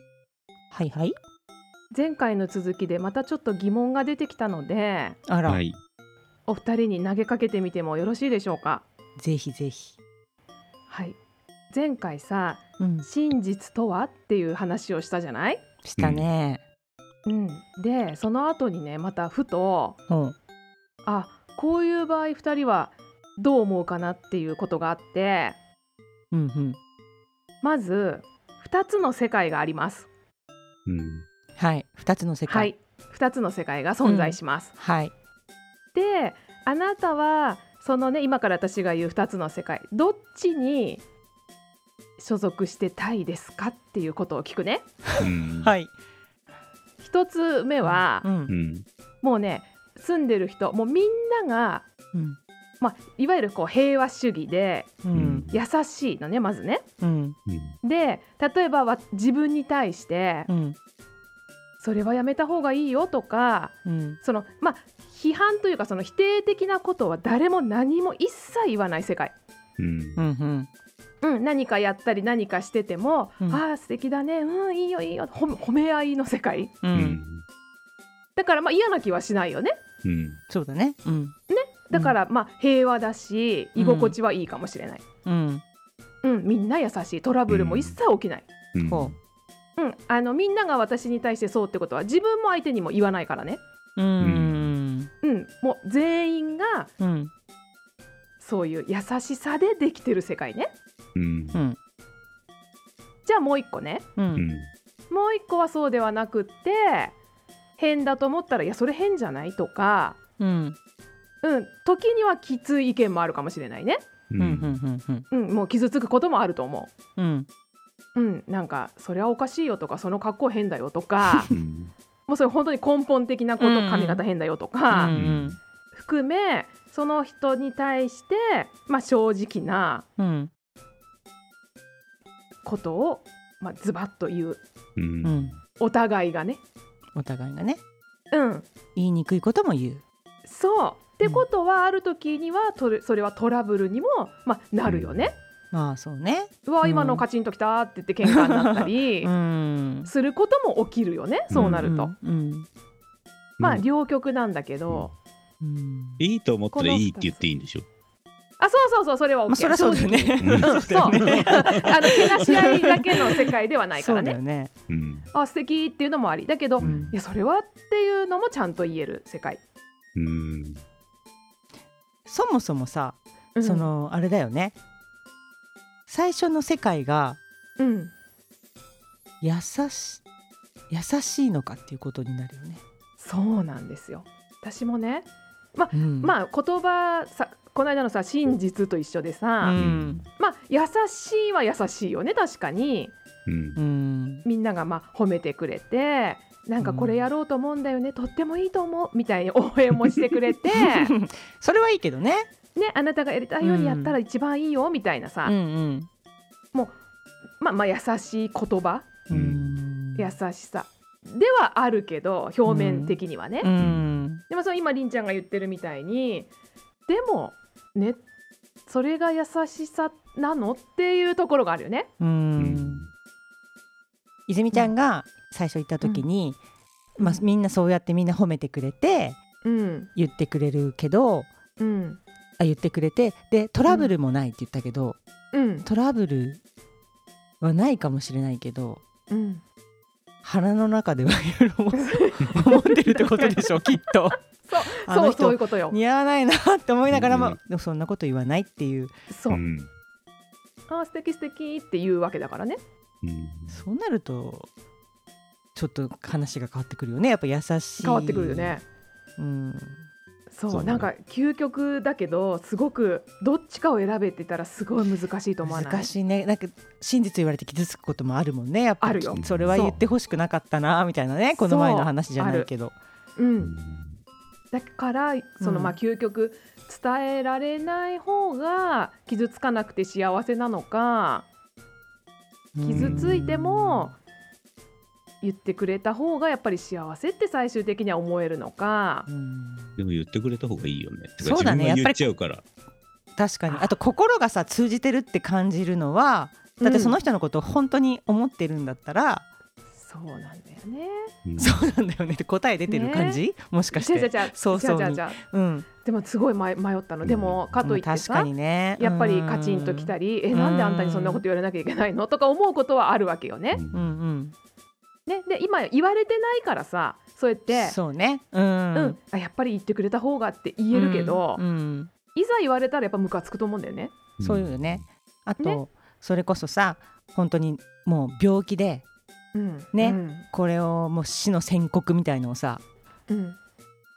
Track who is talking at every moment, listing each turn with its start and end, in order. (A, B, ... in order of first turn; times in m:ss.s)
0:00.7-0:01.1 A
0:01.9-0:05.2 B
0:05.3-0:05.6 A
0:05.4-0:05.8 C
0:06.5-0:08.8 B
0:09.2-0:10.0 A
0:10.9-0:11.2 B
0:11.7-0:15.6 B
0:12.8-0:13.1 A
0:15.8-0:16.6 A
0:16.0-0:16.2 C
0:17.2-0:20.0 B
0:20.1-0:20.4 A
0:21.0-0:25.6 B
0:26.3-0:26.8 A
0:27.6-0:30.1 B
0:30.8-0:31.2 C
0:31.6-0:32.7 A
0:32.5-0:34.7 B
0:34.0-0:35.1 A
0:35.9-0:41.0 B
0:42.2-0:44.8 B
0:45.2-0:45.7 C
0:45.2-0:45.9 A
0:47.0-0:48.3 B
0:47.8-0:48.5 A
0:48.5-0:48.8 C
0:49.2-0:51.8 B
0:52.1-0:52.4 A
0:52.8-0:54.9 B
0:55.0-0:55.5 A
0:55.1-0:55.6 C
0:55.5-0:56.8 B
0:57.0-0:57.4 A
0:57.5-0:57.8 C
0:57.8-1:00.5 B
1:00.5-1:00.8 A
1:01.8-1:09.3 B
1:03.8-1:04.2 A
1:09.8-1:10.2 C
1:10.2-1:10.7 A
1:11.2-1:16.7 B
1:16.8-1:17.2 A
1:16.9-1:17.4 C
1:18.4-1:19.8 B
1:20.0-1:20.4 C
1:20.5-1:21.3 A
1:21.5-1:25.0 B
1:23.8-1:24.2 A
1:25.2-1:25.6 A
1:26.2-1:28.5 B
1:27.5-1:28.0 C
1:28.7-1:29.2 C
1:28.8-1:29.1 A
1:29.8-1:33.6 B
1:34.0-1:35.1 A
1:34.2-1:34.7 C
1:35.2-1:36.9 B
1:37.0-1:37.3 A
1:38.4-1:40.7 B
1:41.1-1:41.6 C
1:41.5-1:41.8 A
1:43.2-1:44.0 B
1:44.2-1:44.4 A
1:44.3-1:44.7 C
1:45.1-1:47.1 B
1:47.8-1:50.2 B
1:50.4-1:50.8 A
1:51.4-1:54.0 B
1:54.3-1:54.8 C
1:54.4-1:55.3 A
1:55.3-1:56.9 B
1:57.2-1:57.5 A
1:58.1-2:01.5 B
2:01.3-2:01.5 A
2:01.5-2:01.9 C
2:02.3-2:05.1 B
2:03.6-2:04.2 A
2:04.9-2:05.6 A
2:05.1-2:05.6 C
2:05.9-2:10.0 B
2:10.2-2:10.5 A
2:12.6-2:14.6 B
2:15.0-2:15.6 C
2:15.2-2:15.5 A
2:15.8-2:16.6 B
2:17.2-2:17.8 A
2:18.3-2:18.6 B
2:19.0-2:20.0 A
2:20.4-2:25.3 B
2:24.8-2:25.3 C
2:25.7-2:27.2 A
2:26.6-2:29.3 B
2:28.8-2:30.1 A
2:30.0-2:32.1 B
2:31.5-2:31.8 C
2:31.5-2:32.7 A
2:33.6-2:33.8 C
2:33.6-2:35.1 B
2:35.6-2:36.2 A
2:36.2-2:37.8 C
2:36.7-2:37.4 B
2:38.6-2:44.4 B
2:39.5-2:44.7 A
2:40.4-2:42.2 C
2:44.9-2:45.3 C
2:45.3-2:49.6 B
2:46.8-2:47.1 A
2:46.8-2:47.1 C
2:50.1-2:50.8 C
2:52.3-2:54.7 A
2:53.6-2:53.9 B
2:56.1-2:57.4 A
2:57.8-2:58.1 B
2:59.4-3:00.2 A
3:00.9-3:02.8 A
3:03.2-3:09.8 B
3:05.9-3:06.4 A
3:09.6-3:10.2 A
3:09.7-3:10.2 C
3:10.4-3:13.1 B
3:13.4-3:13.8 C
3:13.8-3:14.4 A
3:14.4-3:21.1 B
3:16.8-3:17.2 A
3:20.7-3:22.5 A
3:22.7-3:25.5 B
3:23.6-3:24.2 A
3:25.4-3:26.1 A
3:27.6-3:29.1 B
3:29.3-3:30.3 A
3:29.3-3:29.7 C
3:30.2-3:33.7 B
3:32.6-3:34.4 A
3:33.8-3:34.1 C
3:34.5-3:36.5 B
3:37.1-3:38.2 B
3:38.9-3:42.1 B
3:42.2-3:43.0 A
3:42.6-3:43.1 C
3:44.5-3:46.6 A
3:47.2-3:49.4 A
3:49.6-3:50.1 B
3:50.1-3:51.5 A
3:51.8-3:52.2 B
3:52.6-3:55.2 A
3:55.5-3:55.9 B
3:55.8-3:56.6 A
3:57.6-3:59.0 A
3:59.3-3:59.6 B
4:00.4-4:09.1 A
4:01.9-4:03.8 B
4:04.6-4:06.0 B
4:07.1-4:07.6 C
4:09.3-4:09.6 B
4:09.5-4:09.9 C
4:10.9-4:12.8 B
4:13.2-4:13.8 C
4:13.7-4:14.7 A
4:15.8-4:18.8 A
4:18.0-4:18.8 B
4:19.4-4:20.0 A
4:20.5-4:26.1 B
4:20.7-4:21.1 C
4:25.6-4:32.9 A
4:29.0-4:29.9 B
4:29.3-4:30.0 C
4:31.5-4:32.7 B
4:33.4-4:33.7 B
4:33.6-4:34.2 C
4:34.7-4:41.4 B
4:35.6-4:36.0 A
4:42.7-4:44.1 A
4:42.8-4:44.2 B
4:42.9-4:43.5 C
4:45.4-4:49.3 B
4:49.3-4:49.9 A
4:50.0-4:52.6 C
4:51.4-4:52.2 A
4:53.4-4:59.4 A
4:53.7-4:54.0 B
4:56.8-4:57.2 B
5:00.0-5:01.3 B
5:01.4-5:01.8 C
5:01.6-5:05.9 A
5:02.9-5:03.4 B
5:03.9-5:05.4 B
5:06.0-5:13.8 B
5:07.2-5:07.8 C
5:07.8-5:11.4 A
5:13.7-5:14.1 C
5:13.9-5:14.5 A
5:15.3-5:18.0 B
5:17.7-5:19.2 A
5:18.9-5:21.6 B
5:20.9-5:22.1 A
5:22.3-5:24.1 B
5:24.4-5:25.0 C
5:24.4-5:29.0 A
5:29.5-5:30.4 B
5:29.9-5:32.8 A
5:33.3-5:33.6 B